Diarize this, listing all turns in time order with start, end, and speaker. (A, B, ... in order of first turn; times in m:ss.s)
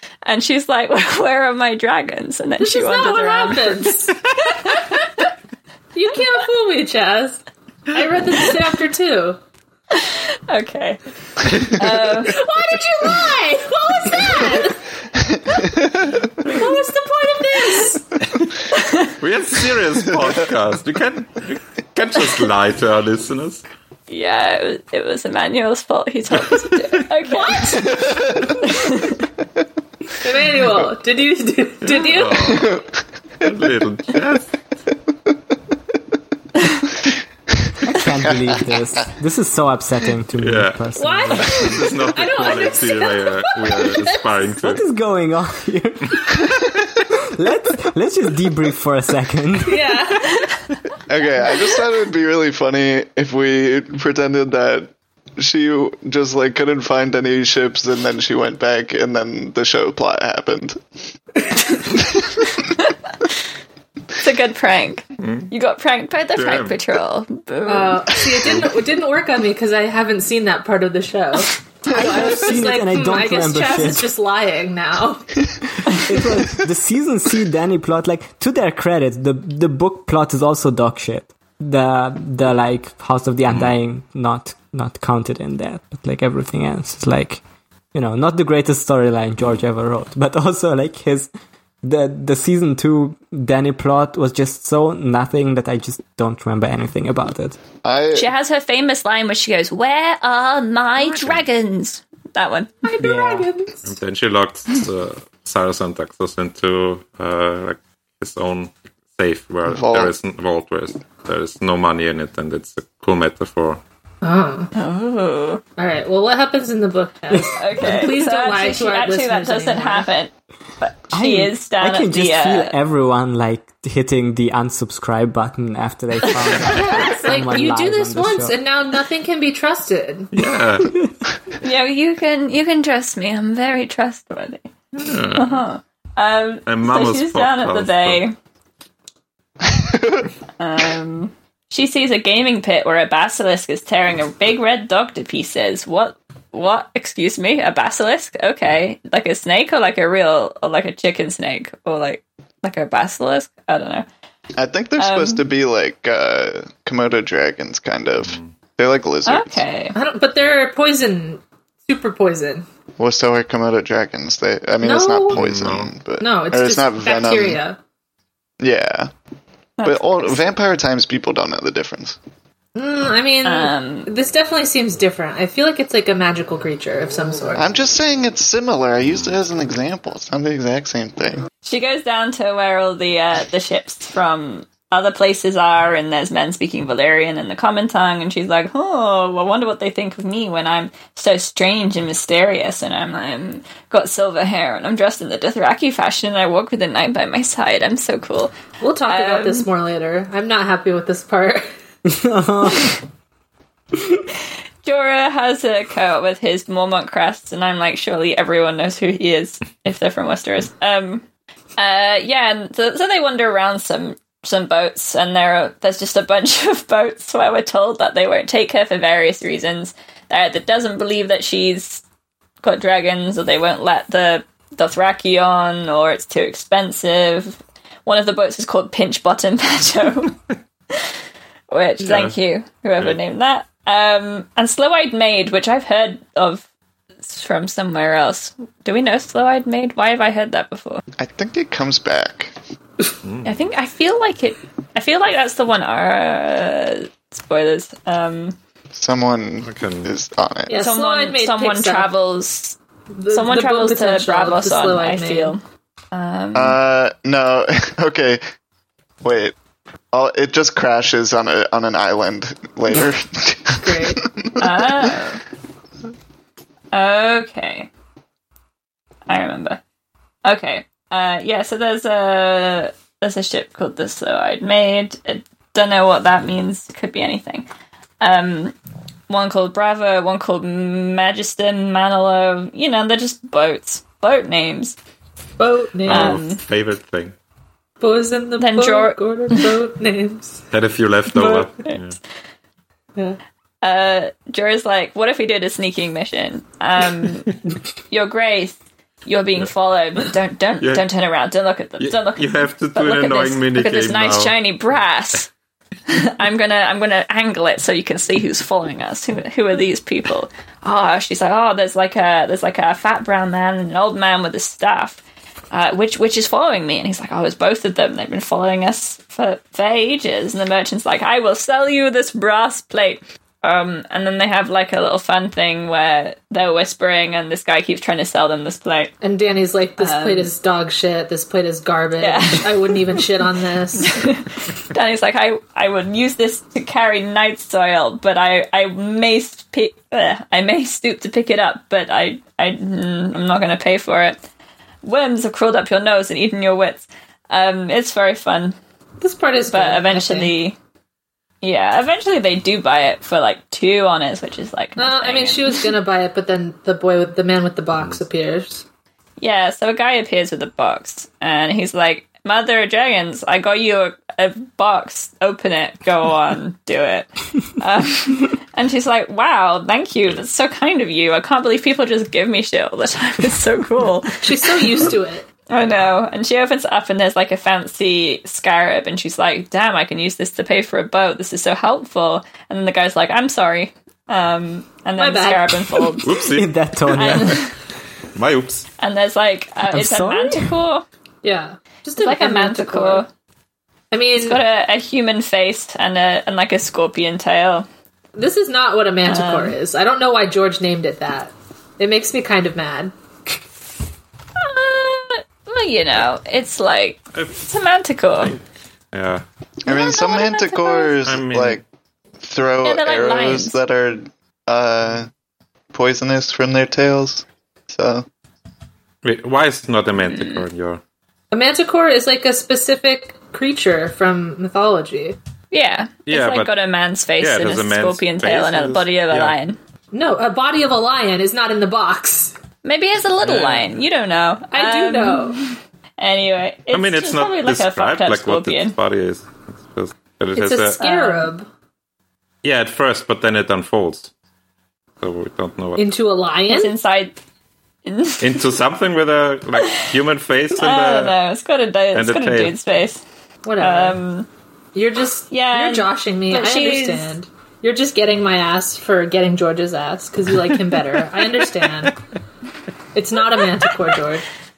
0:00.2-0:04.9 A
0:02.6-0:05.1 B
0:05.9-0:09.4 B
0:09.9-0:11.0 A
0:11.5-0:11.8 C
0:11.6-0:12.4 A
0:12.2-0:14.8 B
0:15.3-0:16.2 D
0:16.4-0:18.0 B
0:18.7-0:19.1 A
0:19.2-0:23.6 C
0:24.1-0:28.0 A
0:26.4-0:27.0 C
0:27.7-0:28.2 C
0:28.6-0:29.2 A
0:30.2-0:32.6 B
0:31.9-0:32.6 C
0:32.5-0:32.9 D
0:33.4-0:34.5 C
0:37.9-0:41.7 E
0:40.4-0:44.8 C
0:40.9-0:44.5 B
0:44.6-0:46.2 E
0:47.2-0:49.9 E
0:49.6-0:50.5 B
0:51.1-1:00.8 D
1:04.2-1:08.4 A
1:05.2-1:05.5 C
1:06.3-1:06.8 C
1:07.7-1:15.3 B
1:11.9-1:14.1 E
1:15.9-1:27.4 E
1:27.9-1:31.3 E
1:31.8-1:37.6 E
1:37.8-1:38.3 D
1:38.1-1:42.7 A
1:41.1-1:41.4 C
1:42.8-1:44.0 B
1:43.0-1:43.5 E
1:43.8-1:53.8 C
1:49.7-1:50.1 D
1:54.2-1:54.7 B
1:54.7-1:55.6 A
1:55.8-2:00.1 B
1:57.6-2:02.8 A
2:01.1-2:08.6 E
2:06.2-2:06.6 A
2:06.7-2:10.3 B
2:10.3-2:10.9 C
2:11.6-2:14.7 A
2:14.9-2:15.6 C
2:15.3-2:18.3 A
2:16.6-2:18.2 C
2:19.7-2:20.2 D
2:20.6-2:34.0 A
2:34.6-2:39.6 D
2:35.0-2:35.4 A
2:38.2-2:38.6 C
2:39.2-2:40.0 A
2:39.9-2:42.6 B
2:43.0-2:47.6 D
2:44.8-2:45.4 B
2:45.3-2:45.9 C
2:46.2-2:47.8 B
2:48.6-2:49.1 D
2:49.8-2:50.4 A
2:49.8-2:52.2 D
2:52.7-2:57.6 B
2:53.4-2:54.1 A
2:57.6-3:01.4 D
2:59.0-2:59.4 C
3:01.6-3:18.5 A
3:18.8-3:21.7 B
3:19.1-3:19.7 A
3:22.0-3:23.0 E
3:24.8-3:31.2 A
3:31.8-3:42.0 A
3:42.6-3:50.4 A
3:51.7-3:56.6 A
3:52.0-3:52.3 C
3:57.2-4:01.0 A
4:01.2-4:02.5 D
4:03.2-4:03.6 C
4:03.4-4:08.6 A
4:08.9-4:10.8 D
4:09.6-4:10.1 C
4:10.7-4:12.1 B
4:10.7-4:12.8 A
4:13.2-4:15.6 B
4:13.3-4:15.6 A
4:16.1-4:16.8 A
4:16.5-4:18.4 D
4:19.2-4:19.5 D
4:20.1-4:25.1 D
4:23.8-4:24.2 B
4:24.6-4:25.4 A
4:26.9-4:27.9 A
4:29.3-4:29.8 A
4:30.4-4:37.7 A
4:38.2-4:38.7 A
4:39.3-4:45.0 A
4:45.6-4:46.4 B
4:46.0-4:47.3 C
4:46.1-4:46.6 A
4:48.0-4:50.6 B
4:48.6-4:49.5 A
4:50.7-4:52.2 C
4:51.3-4:51.7 B
4:53.8-4:57.6 A
4:58.1-5:05.5 A
5:00.8-5:01.0 C
5:02.0-5:04.6 C
5:06.1-5:15.2 A
5:15.7-5:29.1 A
5:29.2-5:34.2 B
5:30.0-5:30.5 A
5:32.2-5:33.2 A
5:34.0-5:44.4 A
5:45.0-5:48.8 A
5:49.2-5:50.5 B
5:49.7-5:50.8 A
5:51.6-5:55.9 A
5:55.0-5:58.8 B
5:59.4-6:15.1 A
6:14.4-6:15.4 B
6:15.7-6:26.4 A
6:25.2-6:26.2 B
6:26.2-6:26.7 C
6:26.5-6:27.7 E
6:27.1-6:27.7 A
6:28.3-6:28.8 C
6:29.0-6:31.0 A
6:29.9-6:30.7 E
6:31.4-6:33.2 B
6:32.2-6:33.3 A
6:34.1-6:34.6 B
6:34.4-6:37.8 A
6:38.3-6:43.1 B
6:39.2-6:39.8 A
6:44.6-6:48.5 A
6:48.4-6:49.4 C
6:49.8-6:51.8 D
6:49.8-6:51.1 A
6:51.2-6:51.8 C
6:52.4-6:55.3 D
6:52.8-6:53.8 A
6:55.9-6:58.2 D
6:59.2-7:01.0 C
7:00.2-7:00.6 A
7:01.5-7:05.4 B
7:05.7-7:09.8 A
7:06.2-7:06.7 C
7:07.4-7:09.5 C
7:10.1-7:12.6 B
7:12.8-7:18.9 A
7:13.4-7:14.0 C
7:14.7-7:15.6 B
7:16.9-7:21.0 C
7:20.5-7:21.7 B
7:21.0-7:21.5 A
7:22.6-7:24.3 C
7:25.2-7:26.1 C
7:26.0-7:26.9 B
7:26.7-7:27.4 A
7:28.0-7:28.7 A
7:28.4-7:31.3 C
7:29.8-7:30.1 A
7:30.7-7:33.2 A
7:32.1-7:32.7 C
7:33.6-7:34.2 B
7:33.8-7:34.5 A
7:34.9-7:42.2 B
7:35.5-7:37.3 A
7:43.1-7:44.4 B